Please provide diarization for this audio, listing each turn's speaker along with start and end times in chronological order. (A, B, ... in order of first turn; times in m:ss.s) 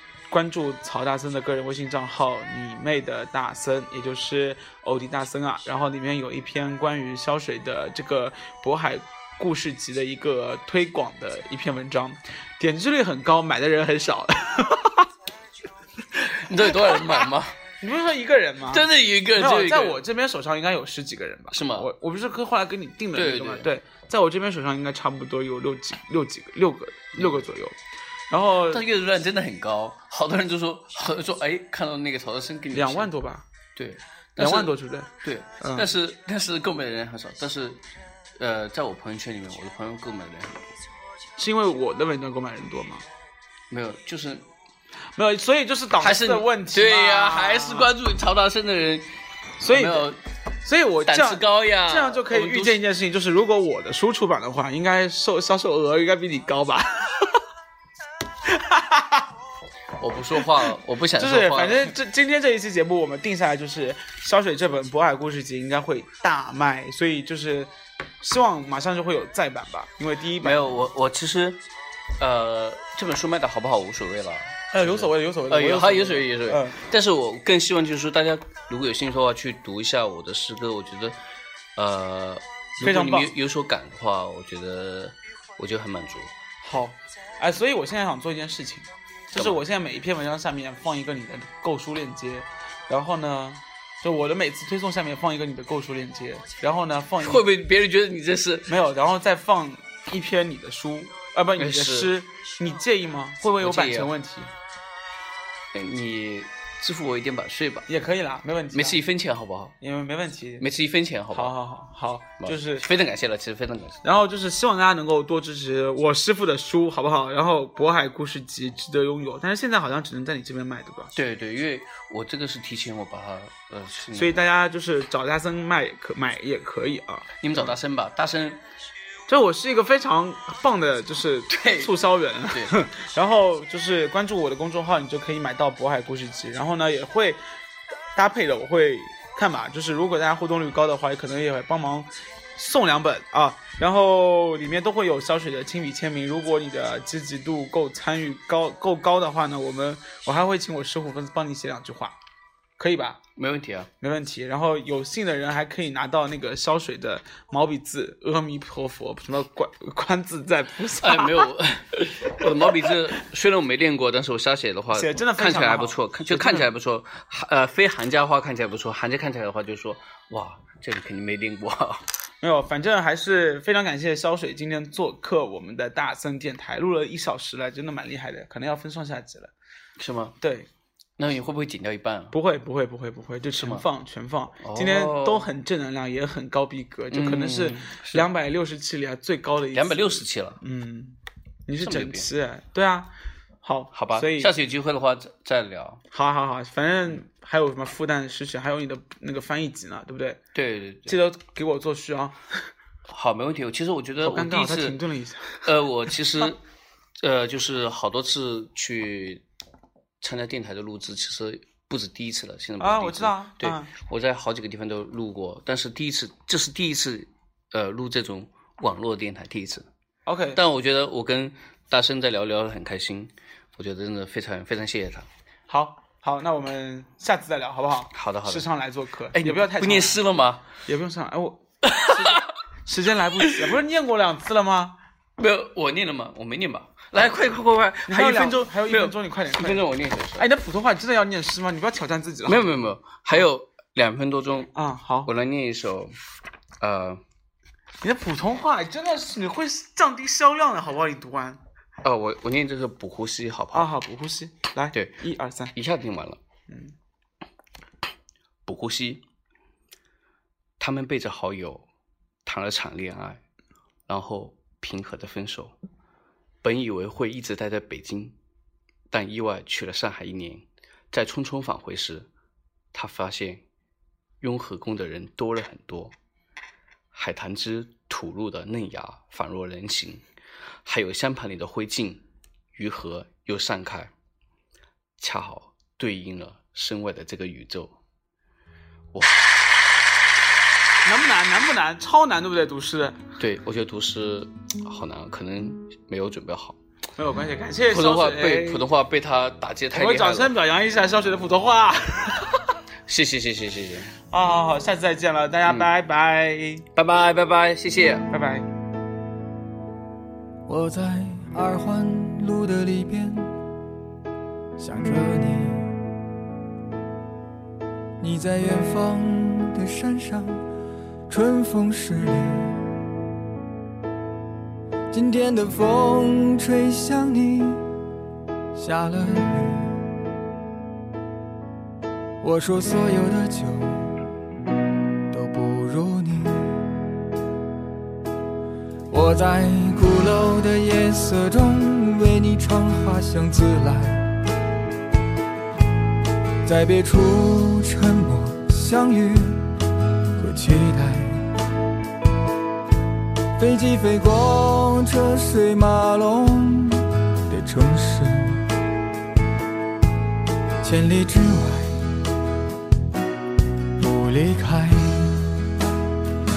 0:00.3-0:15.1 A
0:16.1-0:17.6 B
0:16.7-0:17.2 A
0:17.8-0:27.8 A
0:18.7-0:20.0 B
0:21.5-0:21.9 B
0:23.1-0:23.7 B
0:27.1-0:27.4 B
0:28.3-0:28.8 A
0:28.6-0:33.1 B
0:32.7-0:33.4 A
0:33.7-0:37.8 B
0:34.4-0:35.9 A
0:38.4-0:40.7 B
0:41.4-0:43.0 A
0:43.7-0:44.5 B
0:45.1-0:47.9 A
0:46.0-0:49.1 B
0:49.6-0:50.1 A
0:49.7-0:50.2 B
0:50.6-0:57.4 A
0:51.0-0:52.8 B
0:58.4-0:59.3 A
1:00.0-1:01.9 B
1:00.4-1:10.8 A
1:10.4-1:11.6 B
1:12.2-1:21.2 B
1:14.7-1:16.8 A
1:21.8-1:26.3 B
1:22.8-1:23.3 A
1:26.6-1:37.4 A
1:29.3-1:29.6 B
1:37.2-1:38.7 B
1:38.7-1:44.5 A
1:41.6-1:42.1 B
1:43.6-1:44.1 B
1:45.7-1:47.9 B
1:47.9-1:49.0 A
1:48.7-1:49.7 B
1:49.8-1:50.7 A
1:50.6-1:51.5 B
1:51.3-1:52.9 A
1:52.4-1:54.0 B
1:54.0-2:01.1 A
2:01.1-2:04.4 B
2:04.1-2:07.8 A
2:07.4-2:08.6 B
2:09.3-2:17.4 A
2:11.5-2:12.8 B
2:18.1-2:32.2 A
2:32.8-2:33.2 A
2:33.4-2:33.9 B
2:34.0-2:41.5 A
2:41.0-2:52.1 B
2:44.9-2:46.7 A
2:52.4-2:59.5 A
3:00.0-3:00.4 B
3:00.4-3:00.7 A
3:01.2-3:02.4 B
3:02.3-3:14.5 A
3:03.5-3:03.8 B
3:04.6-3:05.5 B
3:07.1-3:08.3 B
3:09.7-3:10.6 B
3:11.8-3:12.3 B
3:13.9-3:16.0 B
3:16.1-3:20.4 A
3:20.5-3:21.2 B
3:21.1-3:22.6 A
3:23.1-3:25.0 B
3:24.2-3:25.7 A
3:25.6-3:26.6 B
3:27.2-3:29.4 B
3:30.2-3:39.9 B
3:32.8-3:33.9 A
3:40.2-3:40.6 A
3:40.5-3:45.3 B
3:45.7-3:50.2 A
3:48.1-3:48.7 B
3:49.3-3:50.7 B
3:50.8-3:55.0 A
3:51.8-3:52.5 B
3:53.4-3:53.7 B
3:55.4-4:00.5 B
3:58.1-3:59.8 A
4:00.4-4:02.7 A
4:02.4-4:04.7 B
4:04.7-4:05.3 A
4:05.2-4:06.1 B
4:06.8-4:07.2 B
4:08.0-4:11.6 A
4:12.0-4:13.9 B
4:13.7-4:15.7 A
4:14.9-4:15.2 B
4:15.7-4:16.4 B
4:16.7-4:16.9 A
4:18.6-4:19.2 B
4:20.8-4:21.8 B
4:22.4-4:23.4 B
4:24.1-4:25.7 B
4:26.6-4:28.3 B
4:29.1-4:32.3 B
4:32.9-4:33.6 B
4:34.4-4:36.1 B
4:37.1-4:40.2 B
4:40.8-4:42.2 B
4:42.7-4:44.1 B
4:45.2-4:48.0 B
4:49.1-4:49.8 B
4:51.0-4:53.2 A
4:53.4-4:56.8 B
4:57.2-4:58.8 A
4:57.9-5:00.5 B
4:59.9-5:02.8 A
5:03.1-5:04.2 B
5:04.3-5:06.8 A
5:06.9-5:08.3 B
5:08.3-5:08.7 A
5:10.7-5:13.5 C
5:14.8-5:16.0 C
5:18.2-5:20.6 C
5:21.3-5:23.0 C
5:25.1-5:27.8 C
5:28.7-5:30.2 C
5:32.4-5:34.2 C
5:35.3-5:36.8 C
5:39.1-5:44.4 C
5:46.6-5:49.6 C
5:50.4-5:51.5 C
5:53.6-5:58.6 C
6:00.8-6:02.0 C
6:04.0-6:05.5 C